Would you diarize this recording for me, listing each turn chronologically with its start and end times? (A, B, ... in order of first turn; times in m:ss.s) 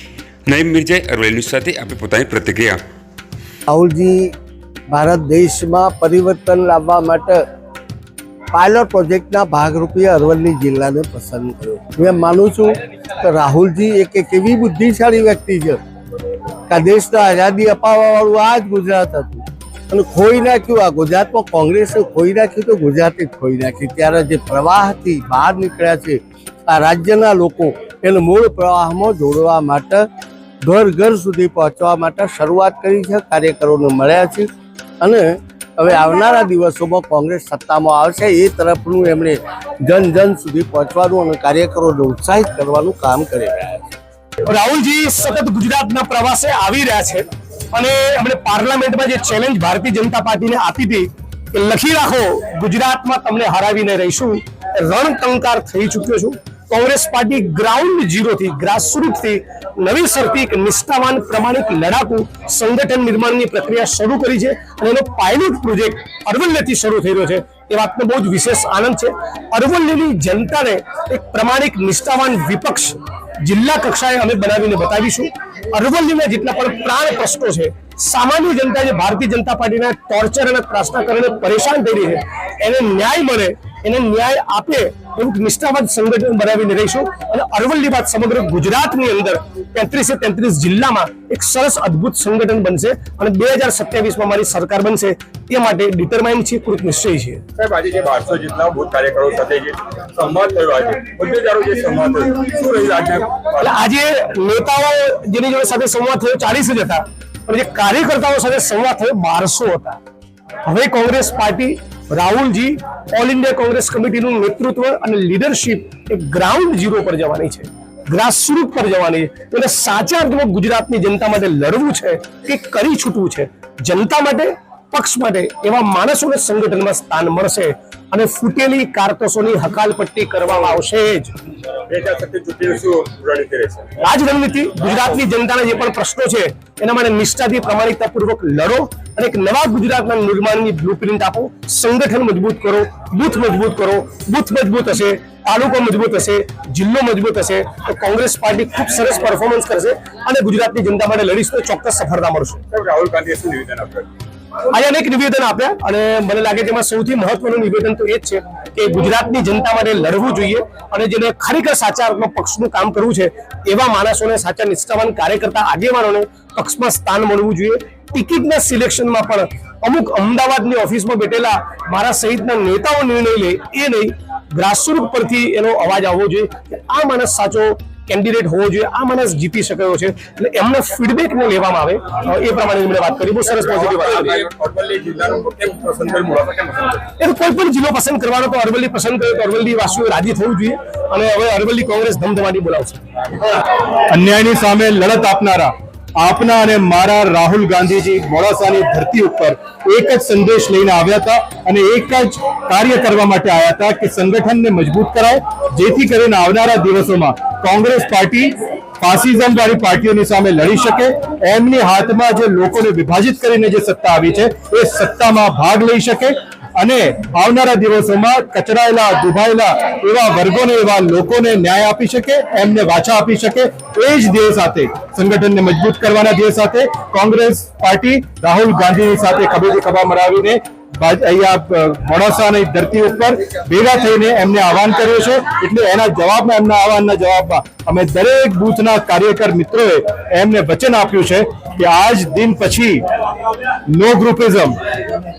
0:00.5-0:02.8 A
0:03.7-0:04.3 B
0:04.9-0:07.4 B
0:08.5-0:15.8 B
0:16.7-0:30.1 B
0:30.6-0:34.5 B
0:35.0-0:43.9 B
0:44.4-1:37.4 C
1:37.6-1:43.6 D
1:43.6-1:50.0 C
1:50.7-2:11.3 C
2:11.9-2:13.9 D
2:14.0-2:32.6 C
2:32.7-2:34.1 D
2:34.7-3:04.4 C
3:03.5-3:07.0 D
3:07.2-3:13.1 C
3:14.1-4:03.0 E
4:03.9-4:04.8 E